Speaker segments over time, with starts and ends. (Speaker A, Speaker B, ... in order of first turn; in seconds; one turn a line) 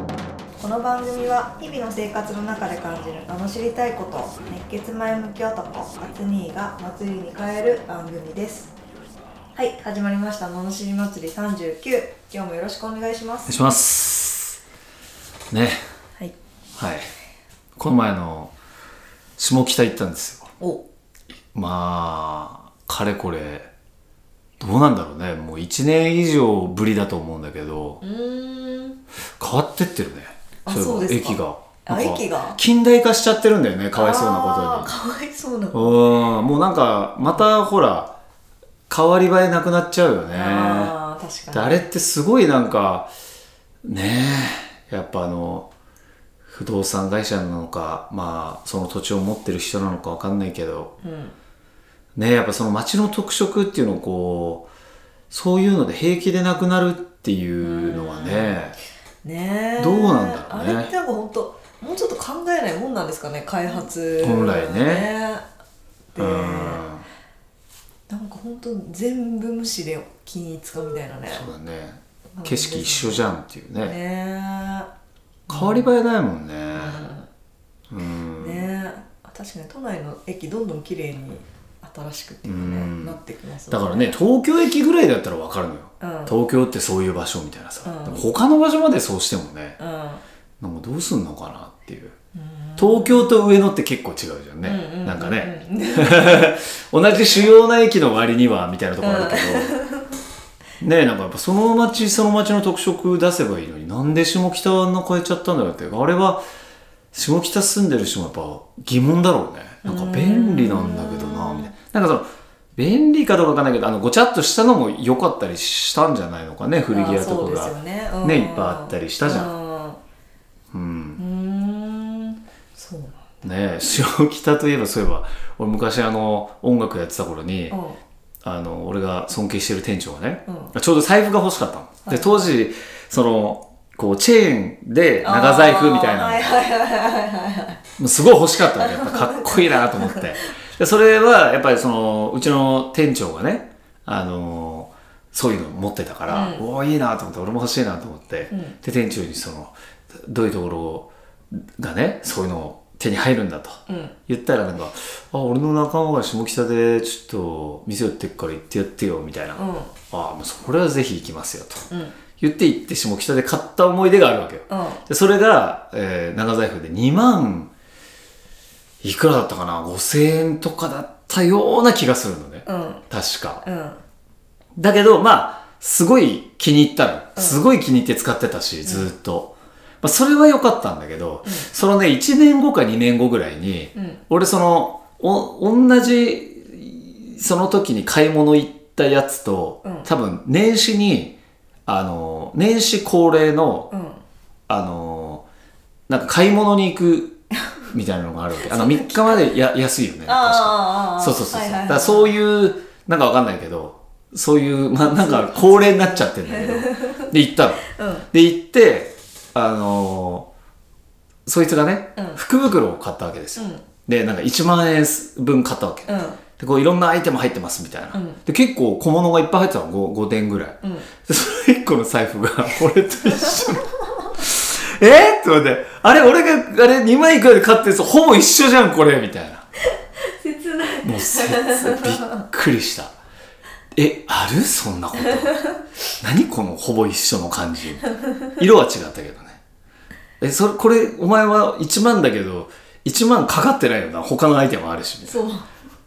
Speaker A: 0.6-8.8
Speaker A: 9.5-13.6
Speaker B: 13.5-14.6
Speaker B: 15.5-15.8
Speaker B: 16.8-17.1
Speaker B: 17.8-18.5
Speaker B: 19.4-20.5
Speaker A: 20.6-20.8
Speaker B: 21.5-23.7
Speaker B: 24.6-28.0
Speaker A: 28.0-29.0
Speaker B: 29.4-34.9
Speaker A: 30.6-32.6
Speaker A: 34.0-36.1
Speaker B: 35.7-38.1
Speaker B: 38.9-41.0
Speaker A: 40.3-41.9
Speaker B: 41.5-43.1
Speaker B: 43.8-45.7
Speaker B: 46.5-50.9
Speaker A: 51.0-51.4
Speaker B: 52.2-54.7
Speaker B: 55.3-58.8
Speaker A: 57.6-58.6
Speaker A: 59.2-65.5
Speaker B: 59.8-60.9
Speaker B: 64.2-65.1
Speaker A: 66.1-66.9
Speaker B: 66.2-67.1
Speaker A: 68.1-71.5
Speaker B: 71.3-74.0
Speaker A: 72.3-74.9
Speaker A: 75.5-75.9
Speaker B: 75.5-77.0
Speaker A: 76.7-77.3
Speaker B: 77.9-78.7
Speaker A: 78.4-84.2
Speaker B: 82.4-89.8
Speaker A: 86.0-86.4
Speaker A: 87.8-88.3
Speaker A: 89.8-90.2
Speaker B: 90.6-92.1
Speaker A: 92.3-93.5
Speaker B: 92.8-99.8
Speaker A: 94.6-96.6
Speaker A: 97.1-97.5
Speaker A: 99.0-100.2
Speaker B: 100.8-106.4
Speaker B: 107.1-119.5
Speaker A: 109.8-111.7
Speaker A: 116.9-120.0
Speaker B: 120.7-121.2
Speaker A: 121.2-123.3
Speaker B: 123.4-127.8
Speaker A: 127.7-128.0
Speaker B: 128.4-136.6
Speaker A: 130.5-130.7
Speaker A: 132.1-132.6
Speaker A: 135.2-137.8
Speaker B: 138.0-161.9
Speaker A: 138.7-140.3
Speaker A: 146.3-146.6
Speaker A: 148.5-148.8
Speaker A: 153.9-154.2
Speaker A: 159.6-159.9
Speaker A: 161.9-162.2
Speaker B: 162.4-167.7
Speaker A: 164.7-165.0
Speaker B: 169.0-173.6
Speaker A: 172.7-173.1
Speaker A: 173.6-174.0
Speaker B: 174.8-193.9
Speaker A: 177.4-177.6
Speaker A: 178.8-179.1
Speaker A: 183.9-184.2
Speaker A: 189.8-190.1
Speaker A: 193.9-194.2
Speaker B: 194.7-195.5
Speaker B: 196.1-197.4
Speaker B: 197.9-210.5
Speaker A: 198.6-199.5
Speaker A: 200.2-202.4
Speaker A: 205.0-207.3
Speaker A: 207.9-208.3
Speaker B: 211.5-229.7
Speaker A: 212.2-212.4
Speaker A: 213.6-213.8
Speaker A: 216.1-216.4
Speaker A: 218.1-218.4
Speaker A: 220.8-221.1
Speaker A: 230.2-232.4
Speaker B: 231.0-233.1
Speaker B: 233.9-235.6
Speaker A: 235.2-235.8
Speaker B: 236.2-239.6
Speaker B: 240.4-245.4
Speaker A: 245.2-245.7